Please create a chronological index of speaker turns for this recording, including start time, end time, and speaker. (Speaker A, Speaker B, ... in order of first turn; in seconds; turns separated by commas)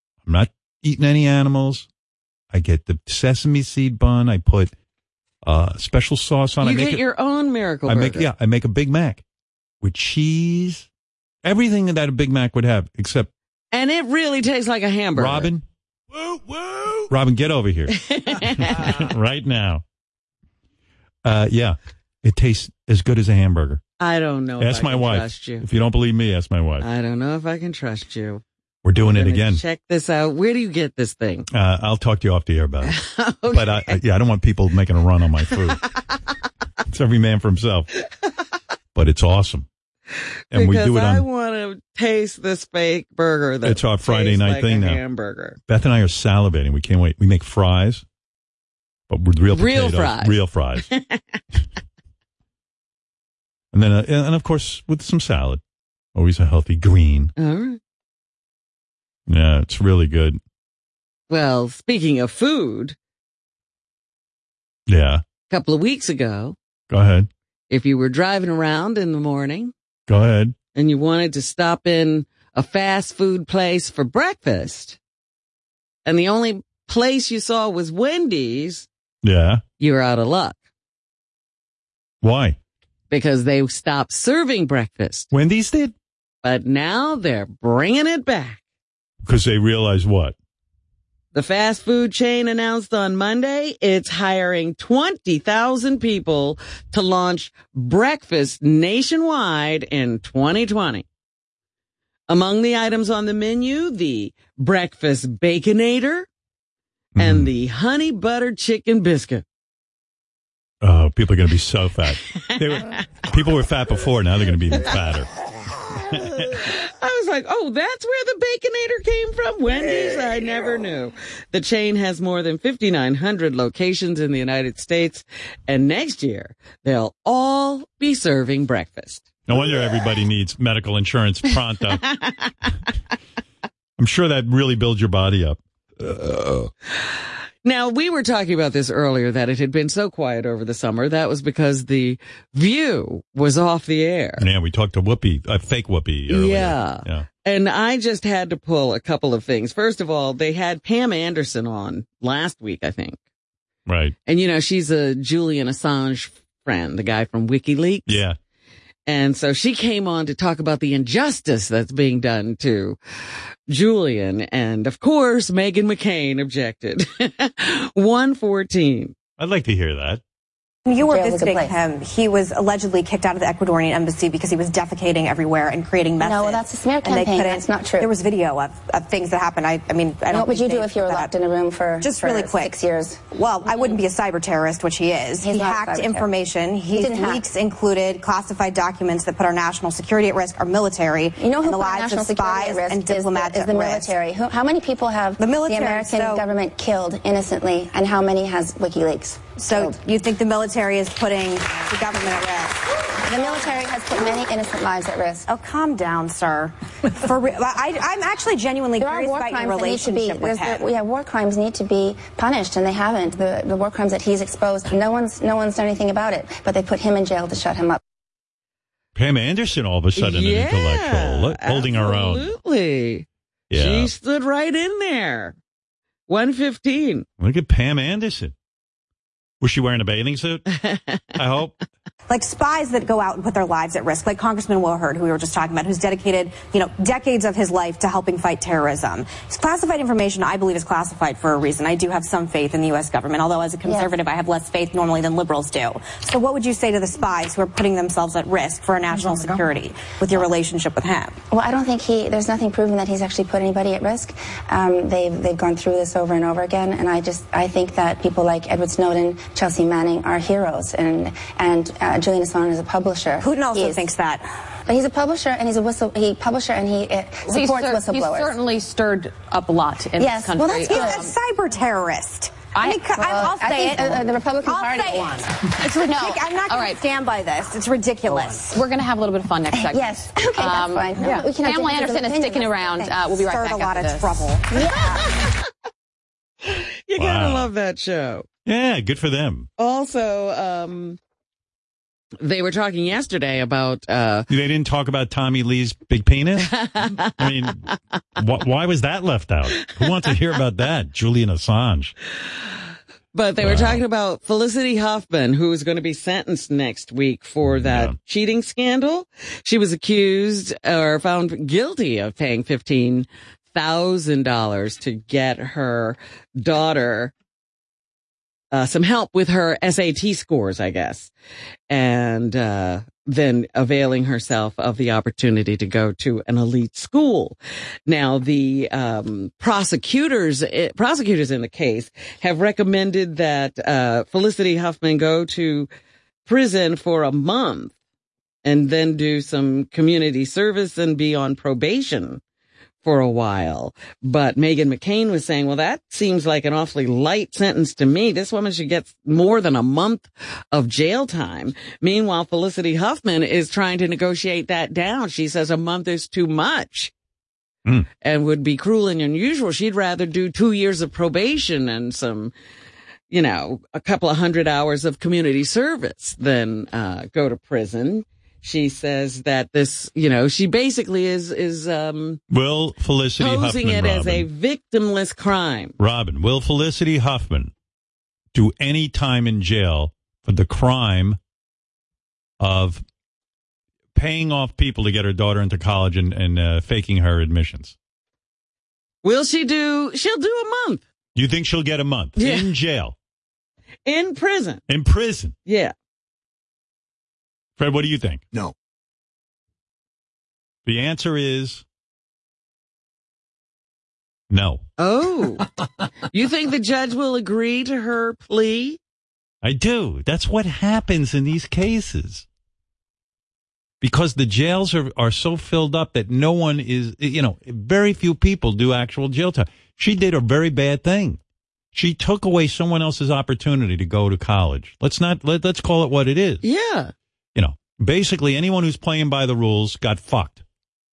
Speaker A: 0.2-1.9, Speaker A: 2.5-4.7, Speaker A: 5.4-7.0, Speaker B: 6.6-8.3, Speaker A: 7.8-9.2, Speaker A: 9.8-10.9, Speaker A: 11.4-13.3, Speaker B: 13.7-15.5, Speaker A: 15.2-15.6, Speaker A: 17.1-19.8, Speaker B: 17.9-19.1, Speaker A: 21.2-23.8, Speaker B: 24.0-25.6, Speaker A: 24.6-26.9, Speaker B: 26.8-28.4, Speaker A: 28.8-29.6, Speaker B: 28.9-31.5, Speaker A: 31.5-33.0, Speaker B: 32.9-34.0, Speaker A: 33.5-35.8, Speaker A: 36.9-37.9, Speaker A: 38.9-39.7, Speaker A: 40.5-41.2, Speaker B: 40.5-45.6, Speaker A: 43.6-45.0, Speaker A: 45.7-48.0, Speaker A: 49.1-50.9, Speaker B: 49.5-51.2, Speaker A: 53.7-55.6, Speaker A: 56.1-57.3, Speaker B: 57.4-57.8, Speaker A: 59.3-60.4, Speaker B: 61.3-62.9, Speaker A: 64.9-65.2, Speaker B: 65.5-66.5, Speaker A: 66.9-67.3, Speaker B: 67.7-69.7, Speaker A: 70.1-70.5, Speaker B: 70.7-75.0, Speaker B: 76.0-78.9, Speaker A: 79.2-79.6, Speaker B: 79.8-80.6, Speaker A: 82.2-82.6, Speaker B: 83.1-85.3, Speaker A: 85.3-85.9, Speaker B: 86.4-88.6, Speaker A: 89.2-90.3, Speaker B: 91.3-101.0, Speaker B: 102.3-106.3, Speaker A: 107.2-107.5, Speaker B: 107.2-109.4, Speaker A: 110.8-115.3, Speaker B: 112.3-113.0, Speaker A: 116.1-116.6, Speaker B: 116.3-129.4, Speaker A: 129.5-132.0, Speaker B: 132.0-132.5, Speaker A: 134.0-136.7, Speaker B: 136.9-144.4, Speaker A: 144.4-147.2, Speaker B: 146.3-153.2, Speaker A: 153.9-154.1, Speaker B: 154.2-158.2, Speaker A: 158.1-158.3, Speaker B: 159.1-163.0, Speaker B: 163.7-169.1, Speaker A: 169.4-170.2, Speaker C: 170.8-181.3, Speaker D: 171.0-171.7, Speaker D: 176.2-178.1, Speaker D: 180.3-183.2, Speaker C: 182.0-182.7, Speaker C: 183.3-194.1, Speaker D: 185.4-186.3, Speaker D: 186.9-187.4, Speaker D: 191.4-199.9, Speaker C: 195.4-196.4, Speaker C: 199.6-204.3, Speaker D: 203.1-205.4, Speaker C: 205.4-210.9, Speaker D: 209.0-218.0, Speaker A: 219.1-222.5, Speaker B: 220.2-225.6, Speaker A: 223.7-224.1, Speaker B: 226.3-227.2, Speaker A: 227.4-228.5, Speaker A: 229.6-230.6, Speaker B: 230.7-231.2, Speaker A: 231.3-231.7, Speaker C: 232.3-251.4, Speaker D: 243.8-244.1, Speaker D: 251.5-264.1, Speaker C: 263.4-264.4, Speaker D: 264.9-268.5, Speaker E: 267.4-271.3, Speaker D: 270.2-271.3, Speaker C: 270.6-278.8, Speaker E: 272.7-273.1, Speaker D: 273.1-275.4, Speaker E: 275.8-277.0, Speaker E: 278.3-284.5, Speaker D: 279.7-283.2, Speaker C: 281.2-281.5, Speaker C: 283.3-284.8, Speaker D: 284.7-285.4, Speaker B: 285.1-285.6, Speaker B: 286.6-288.4, Speaker A: 287.1-287.7, Speaker A: 288.6-289.7, Speaker B: 289.8-291.2, Speaker B: 292.4-294.5, Speaker A: 294.5-302.1, Speaker B: 296.6-297.3, Speaker B: 300.0-300.3, Speaker B: 303.3-317.3, Speaker A: 303.6-304.0, Speaker A: 307.6-308.1, Speaker B: 318.7-321.3, Speaker B: 321.9-335.9, Speaker B: 336.4-337.9, Speaker B: 338.6-342.4, Speaker B: 343.0-357.1, Speaker B: 358.2-362.5, Speaker B: 363.3-372.4, Speaker A: 372.5-374.4, Speaker B: 373.4-375.9, Speaker A: 376.0-377.7, Speaker A: 378.5-381.4, Speaker A: 382.6-383.0, Speaker A: 384.1-387.9, Speaker B: 389.2-391.0, Speaker A: 391.3-393.1, Speaker B: 392.4-392.7, Speaker B: 394.1-394.8, Speaker A: 394.9-395.5, Speaker B: 395.6-395.9, Speaker A: 397.8-398.4, Speaker A: 400.9-401.8, Speaker A: 404.5-404.8, Speaker B: 405.0-405.7, Speaker B: 406.3-409.0, Speaker A: 409.6-412.4, Speaker A: 414.0-421.4, Speaker A: 421.9-426.6, Speaker B: 426.6-427.1, Speaker A: 427.5-430.6